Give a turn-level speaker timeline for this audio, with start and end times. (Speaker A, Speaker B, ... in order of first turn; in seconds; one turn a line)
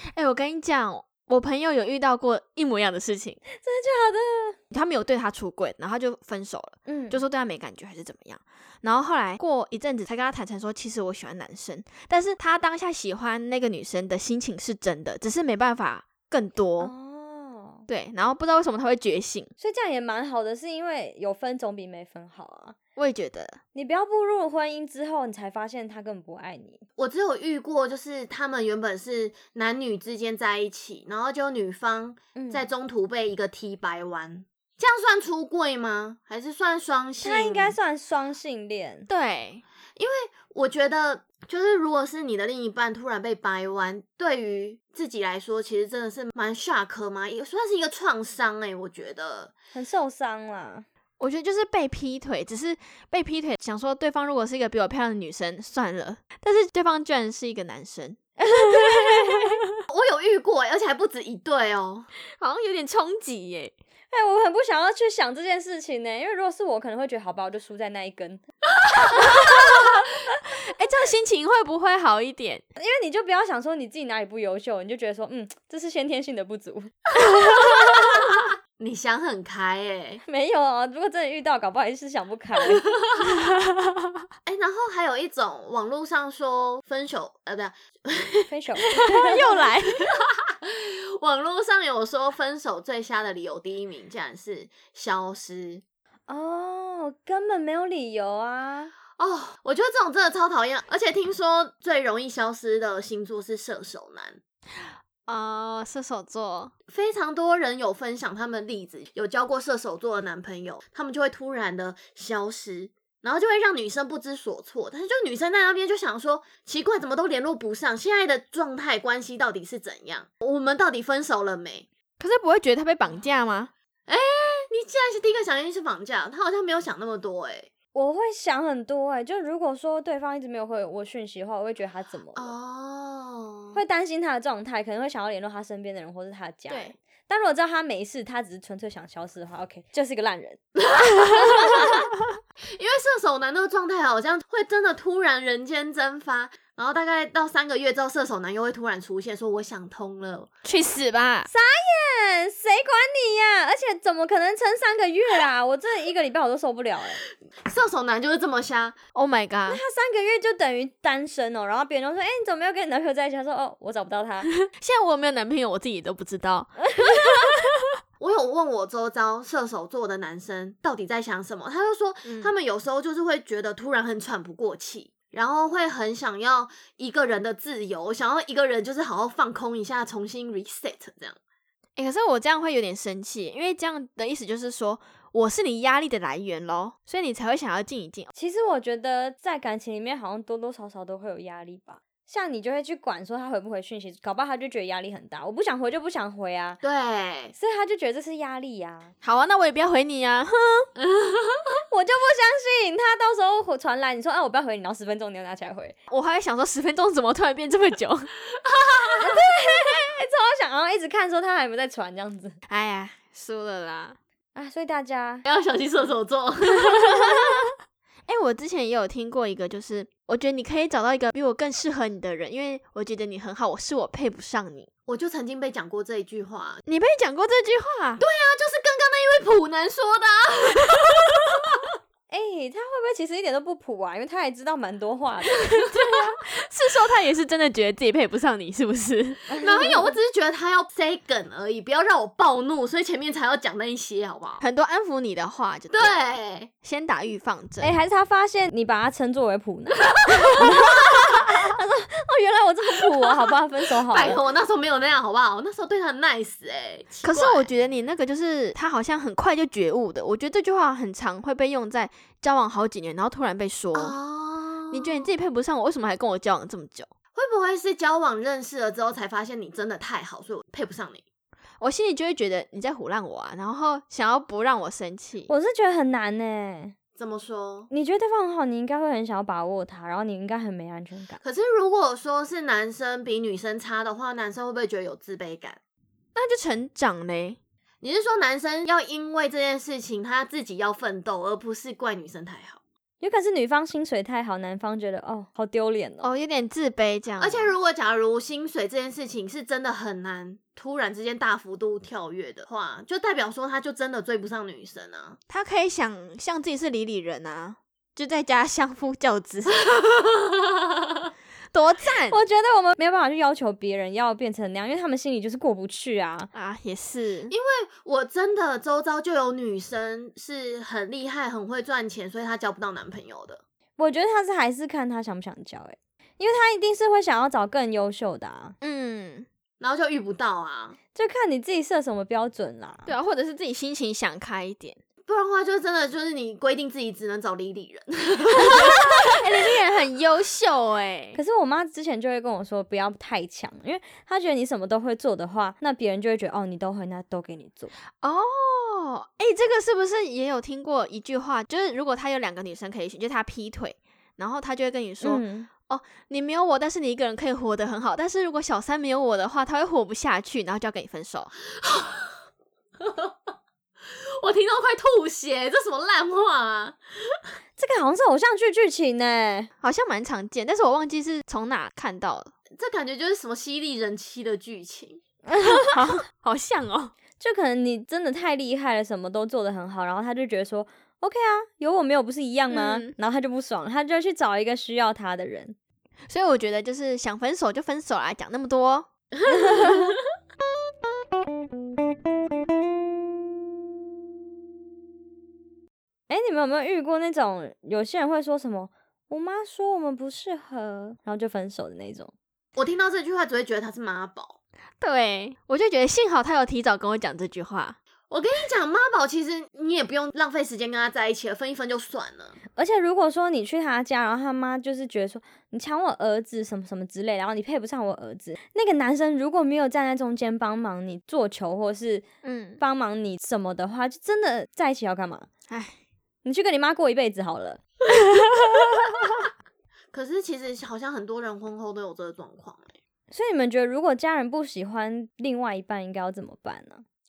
Speaker A: 0.1-3.4
Speaker B: 3.5-4.6
Speaker A: 4.7-16.9
Speaker B: 6.9-7.2
Speaker B: 16.8-17.9
Speaker A: 17.9-19.5
Speaker B: 19.6-22.8
Speaker A: 23.0-23.6
Speaker B: 23.8-26.8
Speaker C: 27.0-37.8
Speaker B: 32.4-32.6
Speaker B: 37.2-39.1
Speaker A: 39.1-39.6
Speaker C: 40.0-49.5
Speaker B: 49.7-50.9
Speaker A: 51.2-59.6
Speaker B: 58.4-59.6
Speaker C: 59.9-62.1
Speaker A: 62.4-63.7
Speaker B: 64.1-68.4
Speaker A: 69.2-69.9
Speaker A: 70.5-72.6
Speaker B: 72.8-77.0
Speaker A: 77.4-77.9
Speaker C: 78.8-80.2
Speaker B: 80.3-82.8
Speaker C: 84.5-88.5
Speaker B: 88.5-89.4
Speaker A: 88.8-90.2
Speaker C: 90.6-95.8
Speaker B: 96.3-98.9
Speaker C: 99.2-104.4
Speaker A: 105.3-106.7
Speaker C: 106.9-121.9
Speaker A: 122.2-123.7
Speaker C: 124.1-127.7
Speaker B: 127.9-132.6
Speaker C: 132.3-133.8
Speaker B: 133.7-140.7
Speaker A: 136.7-136.9
Speaker C: 141.0-141.7
Speaker B: 141.3-141.6
Speaker C: 142.7-150.5
Speaker A: 150.6-151.5
Speaker B: 151.5-157.2
Speaker C: 157.7-159.0
Speaker A: 159.1-159.8
Speaker B: 159.7-164.5
Speaker A: 164.7-167.7
Speaker C: 168.2-181.4
Speaker A: 172.2-172.5
Speaker A: 182.0-188.3
Speaker B: 188.3-196.8
Speaker C: 196.8-197.5
Speaker B: 197.6-199.1
Speaker A: 199.2-200.9
Speaker C: 201.0-201.7
Speaker B: 201.9-206.0
Speaker A: 206.1-208.3
Speaker C: 208.7-209.3
Speaker B: 209.2-212.6
Speaker A: 212.7-214.2
Speaker B: 214.6-215.4
Speaker C: 215.4-217.3
Speaker A: 216.8-217.7
Speaker A: 218.3-224.9
Speaker C: 225.1-226.8
Speaker A: 226.9-228.2
Speaker C: 228.2-231.4
Speaker B: 232.3-235.6
Speaker A: 235.8-239.4
Speaker B: 239.5-240.1
Speaker C: 239.6-244.6
Speaker A: 244.6-248.0
Speaker C: 245.9-246.7
Speaker B: 247.8-254.4
Speaker C: 254.0-257.7
Speaker A: 257.2-264.2
Speaker C: 263.9-265.3
Speaker A: 264.9-267.1
Speaker C: 267.3-271.2
Speaker A: 271.8-275.5
Speaker B: 275.5-276.9
Speaker C: 277.2-277.9
Speaker B: 277.9-281.4
Speaker C: 281.4-285.8
Speaker A: 286.4-287.6
Speaker C: 288.0-292.8
Speaker B: 293.2-296.3
Speaker A: 296.2-297.7
Speaker C: 297.4-305.4
Speaker A: 305.5-309.9
Speaker A: 311.7-312.4
Speaker B: 312.3-316.5
Speaker A: 316.5-317.5
Speaker C: 317.5-323.6
Speaker B: 324.0-328.8
Speaker A: 328.8-329.5
Speaker C: 329.8-331.0
Speaker B: 331.1-333.1
Speaker A: 333.1-335.0
Speaker C: 335.2-339.1
Speaker A: 338.6-341.4
Speaker B: 341.4-347.9
Speaker A: 348.2-361.5
Speaker B: 355.2-355.7
Speaker C: 361.8-362.3
Speaker C: 363.1-363.3
Speaker C: 364.4-367.0
Speaker B: 367.8-369.7
Speaker A: 369.8-372.5
Speaker C: 372.8-375.2
Speaker B: 375.5-376.0
Speaker A: 375.6-377.1
Speaker B: 377.4-385.8
Speaker A: 382.7-383.1
Speaker A: 386.3-389.1
Speaker A: 389.8-390.2
Speaker B: 396.3-402.3
Speaker C: 402.8-404.6
Speaker A: 405.0-408.0
Speaker C: 408.3-412.6
Speaker B: 412.7-422.3
Speaker A: 422.4-422.8
Speaker B: 422.8-425.5
Speaker A: 425.7-425.9
Speaker B: 426.4-427.8
Speaker A: 428.4-428.8
Speaker C: 430.1-432.9
Speaker B: 433.3-437.1